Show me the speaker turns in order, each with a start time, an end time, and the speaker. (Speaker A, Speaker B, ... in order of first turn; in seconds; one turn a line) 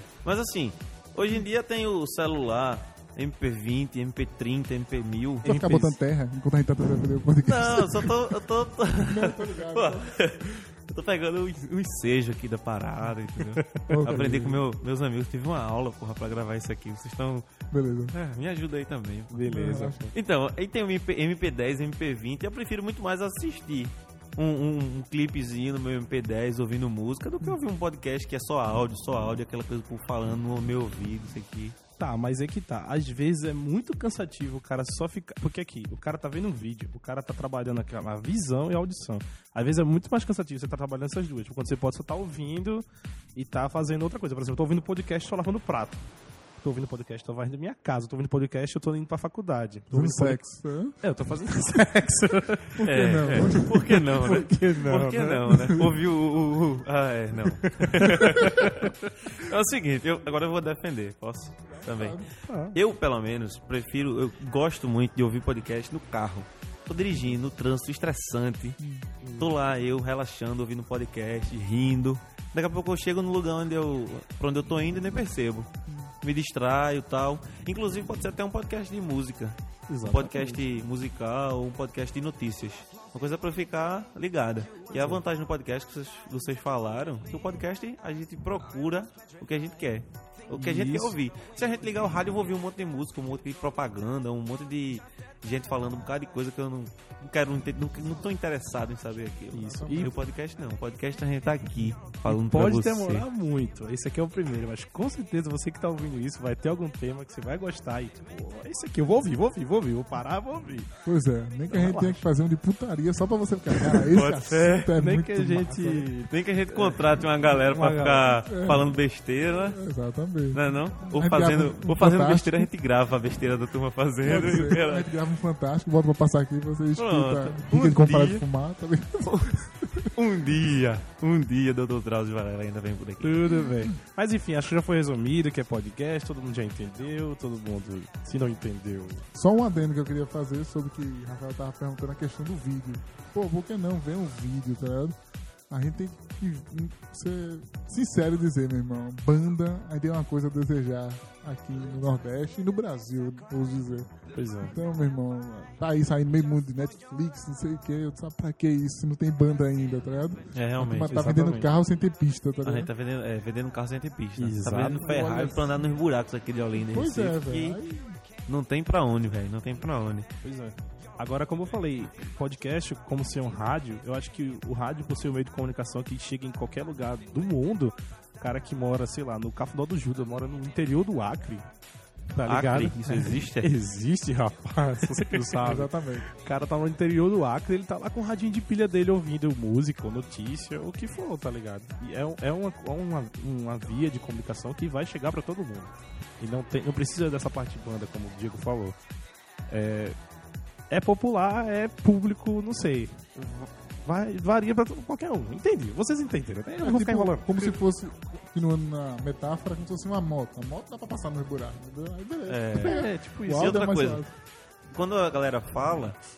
Speaker A: 0.2-5.6
Speaker B: 5.4-6.0
Speaker C: 5.5-8.4
Speaker A: 7.4-17.5
Speaker C: 9.0-10.2
Speaker B: 13.7-14.0
Speaker C: 13.9-14.7
Speaker C: 17.7-18.1
Speaker A: 18.1-19.5
Speaker B: 19.3-20.1
Speaker C: 19.5-20.1
Speaker A: 20.1-31.8
Speaker B: 32.0-46.0
Speaker B: 46.6-50.5
Speaker C: 49.9-51.0
Speaker B: 51.0-55.8
Speaker C: 52.8-54.3
Speaker A: 52.8-68.8
Speaker C: 55.5-55.9
Speaker B: 57.5-59.0
Speaker C: 61.7-62.3
Speaker B: 62.5-62.8
Speaker C: 68.8-69.1
Speaker B: 69.2-69.5
Speaker A: 69.4-75.7
Speaker C: 75.9-76.1
Speaker A: 76.2-103.2
Speaker B: 79.9-80.8
Speaker B: 85.0-85.2
Speaker B: 90.5-91.2
Speaker B: 99.5-100.2
Speaker C: 99.8-100.1
Speaker B: 102.2-110.9
Speaker C: 111.0-116.1
Speaker B: 111.7-112.2
Speaker A: 114.1-114.9
Speaker B: 114.5-118.4
Speaker A: 116.3-119.8
Speaker C: 118.5-119.0
Speaker C: 119.6-122.7
Speaker A: 120.5-125.1
Speaker C: 124.2-130.1
Speaker A: 127.0-128.4
Speaker A: 129.2-129.6
Speaker A: 130.1-133.5
Speaker B: 133.2-139.3
Speaker C: 133.5-134.0
Speaker C: 139.3-145.2
Speaker C: 145.7-154.1
Speaker B: 154.3-154.8
Speaker C: 154.6-162.9
Speaker A: 160.5-161.3
Speaker B: 161.1-161.8
Speaker A: 162.6-167.8
Speaker B: 164.4-165.2
Speaker C: 164.8-165.8
Speaker C: 166.8-168.2
Speaker A: 168.5-170.3
Speaker B: 170.4-181.7
Speaker B: 182.3-199.0
Speaker A: 182.4-183.7
Speaker A: 185.1-185.5
Speaker C: 185.6-186.3
Speaker B: 199.7-200.2
Speaker B: 200.9-207.8
Speaker C: 206.8-214.3
Speaker A: 212.5-214.2
Speaker B: 212.7-213.9
Speaker A: 214.9-216.2